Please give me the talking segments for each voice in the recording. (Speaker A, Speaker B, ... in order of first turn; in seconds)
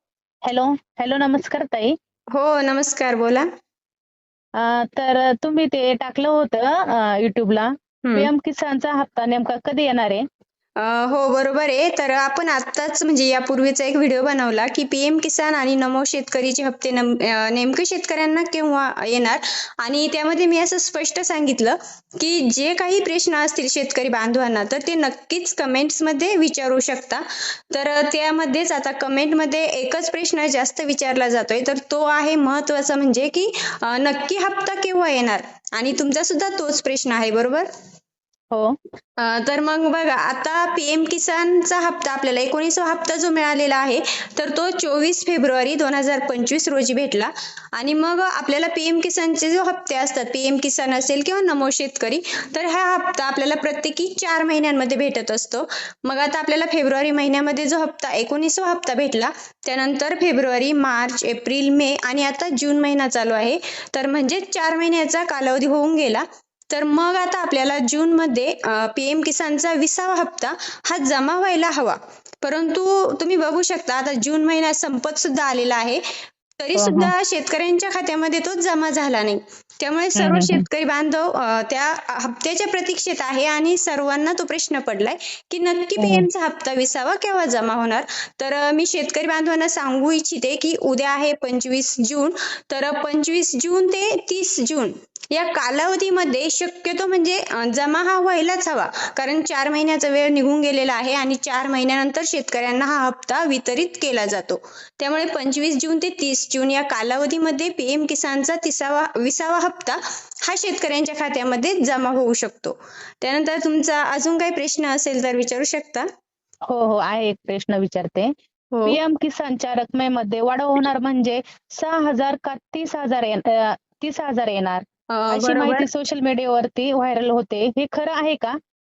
Speaker A: 0.5-1.9, 4.6-10.2, 76.8-77.1, 80.2-80.6, 86.0-86.2, 116.7-118.3, 118.8-128.5
Speaker B: 2.3-3.5, 8.0-8.3, 10.8-37.7, 39.2-76.0, 76.6-116.0, 118.7-119.0, 125.1-125.8